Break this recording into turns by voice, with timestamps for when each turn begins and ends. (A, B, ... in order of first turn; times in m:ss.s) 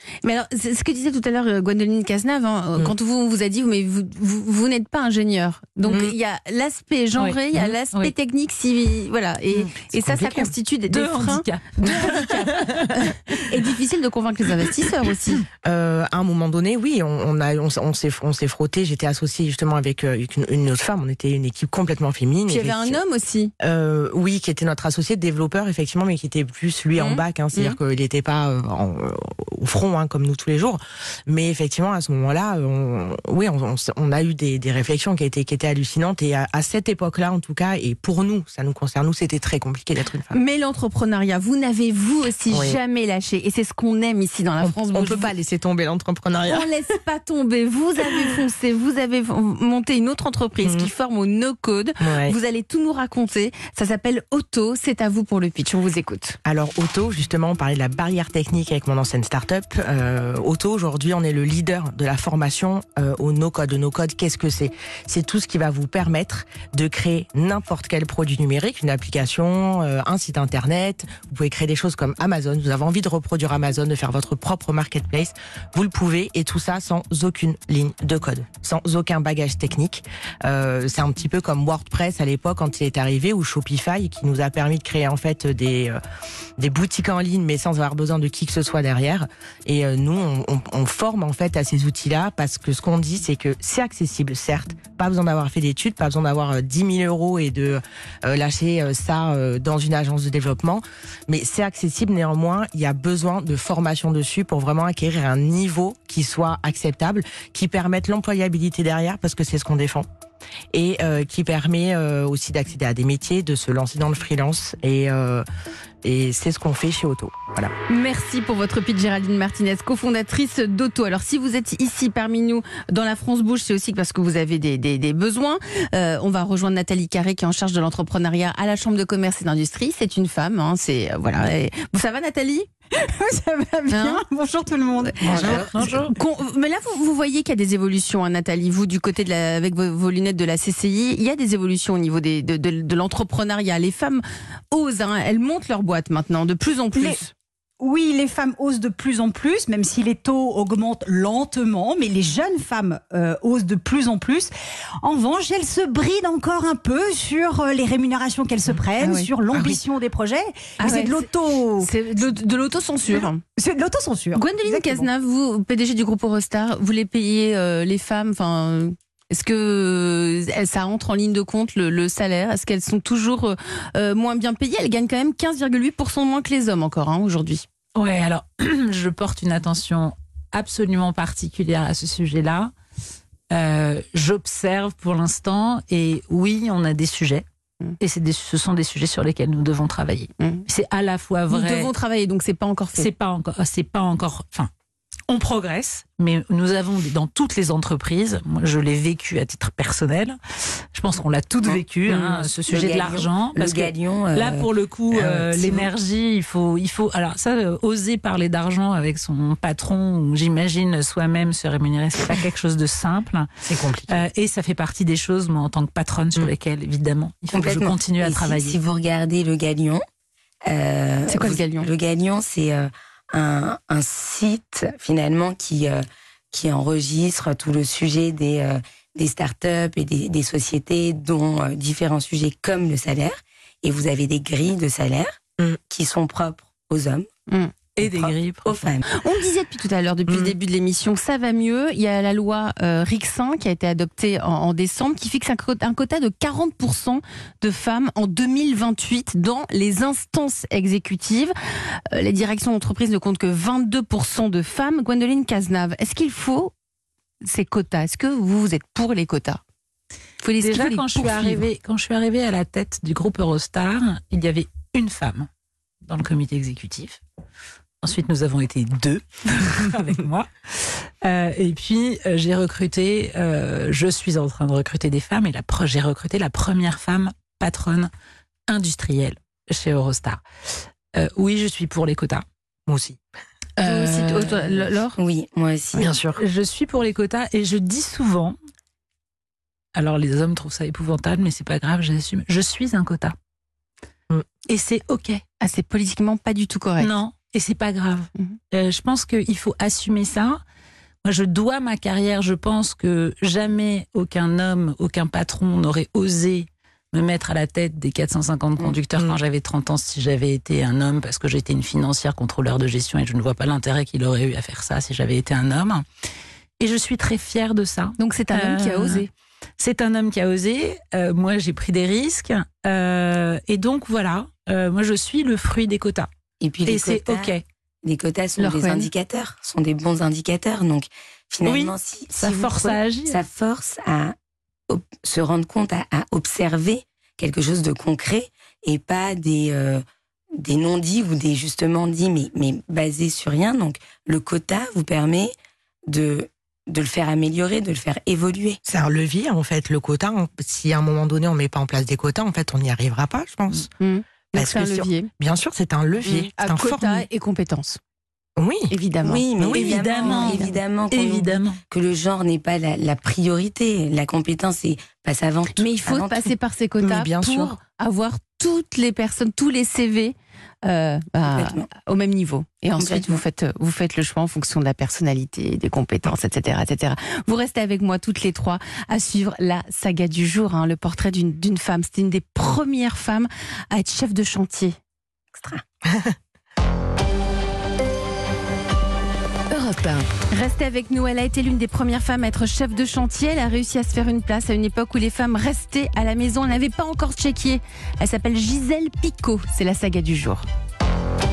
0:00.2-0:15.5 A
0:05.9-0:06.1 B
0:07.2-0:08.1 C
0:10.0-0:10.5 B
0:10.9-0:12.7 C
0:11.8-0:12.9 B
0:15.6-0:23.0 B
0:22.5-0:23.5 A
0:23.6-0:40.4 B
0:27.0-0:27.8 A
0:40.3-0:45.3 A
0:42.5-0:42.8 B
0:44.6-0:46.7 B
0:46.5-0:56.4 A
0:50.6-0:50.9 B
0:52.0-0:52.4 B
0:56.4-1:26.0 B
1:26.6-1:50.1 B
1:50.7-1:55.4 B
1:56.0-1:57.7 B
1:57.9-2:12.7 A
2:12.9-2:16.1 D
2:13.9-2:14.2 A
2:15.2-2:15.7 E
2:15.2-2:16.2 C
2:16.1-2:27.3 A
2:26.9-2:27.2 D
2:27.8-2:42.3 D
2:39.0-2:39.3 A
2:40.8-2:41.3 A
2:41.8-2:43.4 A
2:43.1-2:45.1 D
2:44.3-2:57.6 A
2:58.0-3:02.7 C
3:03.5-3:07.4 C
3:08.0-3:11.9 C
3:10.4-3:10.6 A
3:11.5-3:13.1 A
3:13.0-3:14.7 C
3:15.3-3:33.5 C
3:21.7-3:25.9 E
3:33.6-3:34.2 B
3:34.1-3:38.8 C
3:37.5-3:40.0 E
3:40.7-3:57.3 E
3:41.3-3:41.9 A
3:58.0-3:58.8 C
3:58.0-3:59.1 E
3:59.1-4:11.5 A
4:00.3-4:00.6 B
4:12.1-4:16.7 A
4:17.4-4:19.6 A
4:20.4-4:21.7 A
4:20.6-4:25.5 C
4:26.0-4:27.2 C
4:28.0-4:38.1 C
4:38.7-4:40.4 C
4:41.2-4:42.4 C
4:42.9-4:43.2 B
4:43.8-4:45.2 A
4:43.8-4:44.8 B
4:45.2-4:46.1 E
4:46.0-4:46.4 B
4:46.4-4:48.6 C
4:50.0-4:53.4 C
4:54.7-4:55.4 C
4:55.6-4:57.1 A
4:57.0-5:00.6 C
5:01.2-5:16.0 C
5:16.8-5:19.3 C
5:18.2-5:19.3 A
5:19.8-5:26.3 C
5:26.6-5:34.4 E
5:26.8-5:27.6 C
5:28.6-5:29.1 A
5:31.6-5:33.4 C
5:34.9-5:40.0 E
5:40.6-5:45.5 E
5:46.1-5:48.8 E
5:48.8-5:53.9 B
5:54.0-5:55.3 A
5:54.6-5:57.2 B
5:56.2-5:58.0 A
5:58.6-5:58.9 B
5:58.9-5:59.4 A
5:59.2-6:06.5 E
5:59.6-5:59.9 B
5:59.7-6:01.8 C
6:00.2-6:00.8 A
6:05.8-6:25.0 A
6:07.0-6:07.8 B
6:11.4-6:11.9 E
6:13.0-6:13.4 E
6:25.6-6:25.8 E
6:29.7-6:40.6 A